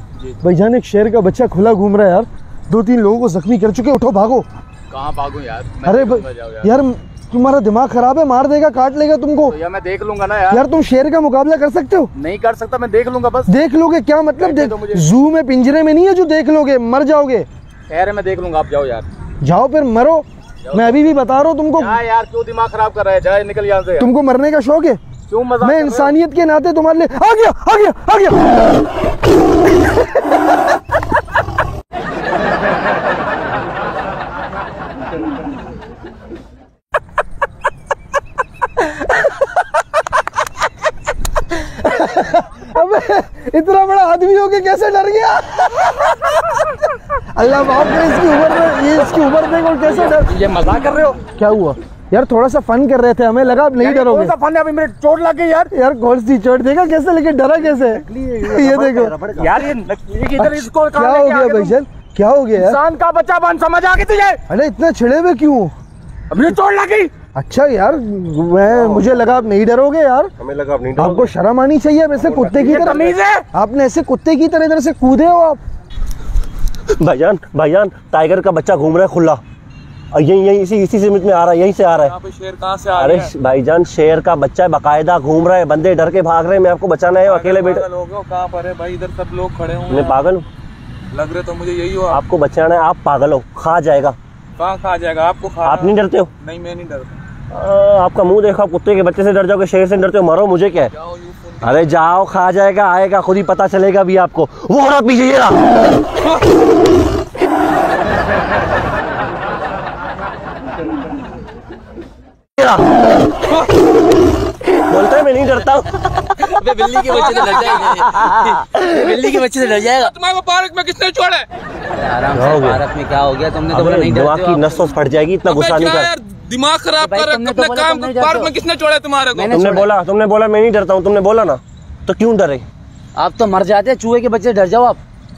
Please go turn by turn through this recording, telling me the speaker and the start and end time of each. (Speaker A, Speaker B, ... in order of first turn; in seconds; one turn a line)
Speaker A: 0.4-4.5
Speaker B: 4.9-6.7
Speaker A: 5.8-9.6
Speaker B: 9.5-10.6
Speaker A: 10.5-12.1
Speaker B: 12.2-13.5
Speaker A: 13.5-17.5
Speaker B: 14.4-15.1
Speaker B: 17.9-19.1
Speaker A: 19.4-22.0
Speaker B: 20.7-21.1
Speaker B: 21.8-24.1
Speaker A: 24.0-25.0
Speaker B: 25.3-26.1
Speaker A: 25.6-28.5
Speaker A: 41.5-46.1
Speaker A: 47.3-50.4
Speaker B: 49.9-51.3
Speaker A: 51.3-54.3
Speaker B: 53.6-55.7
Speaker A: 55.7-59.2
Speaker C: 58.0-59.5
Speaker B: 59.4-61.8
Speaker A: 60.4-62.8
Speaker B: 62.6-64.4
Speaker A: 64.5-65.7
Speaker B: 66.3-67.1
Speaker A: 67.3-70.3
Speaker C: 68.7-69.1
Speaker C: 70.4-71.3
Speaker A: 71.0-75.6
Speaker B: 72.2-73.5
Speaker C: 76.9-79.4
Speaker C: 80.1-82.1
Speaker D: 82.0-83.3
Speaker C: 83.0-87.8
Speaker D: 87.2-90.2
Speaker C: 89.9-90.5
Speaker D: 91.1-92.2
Speaker C: 92.1-94.2
Speaker D: 94.6-97.2
Speaker C: 95.6-96.3
Speaker C: 97.5-100.9
Speaker D: 100.8-101.6
Speaker C: 101.6-105.8
Speaker C: 114.8-116.1
Speaker E: 116.4-120.1
Speaker D: 117.1-118.1
Speaker D: 119.7-121.5
Speaker E: 122.0-124.9
Speaker C: 122.4-122.8
Speaker C: 123.7-126.1
Speaker D: 125.5-129.7
Speaker E: 127.0-128.5
Speaker E: 129.3-129.9
Speaker C: 129.5-132.7
Speaker E: 133.2-135.0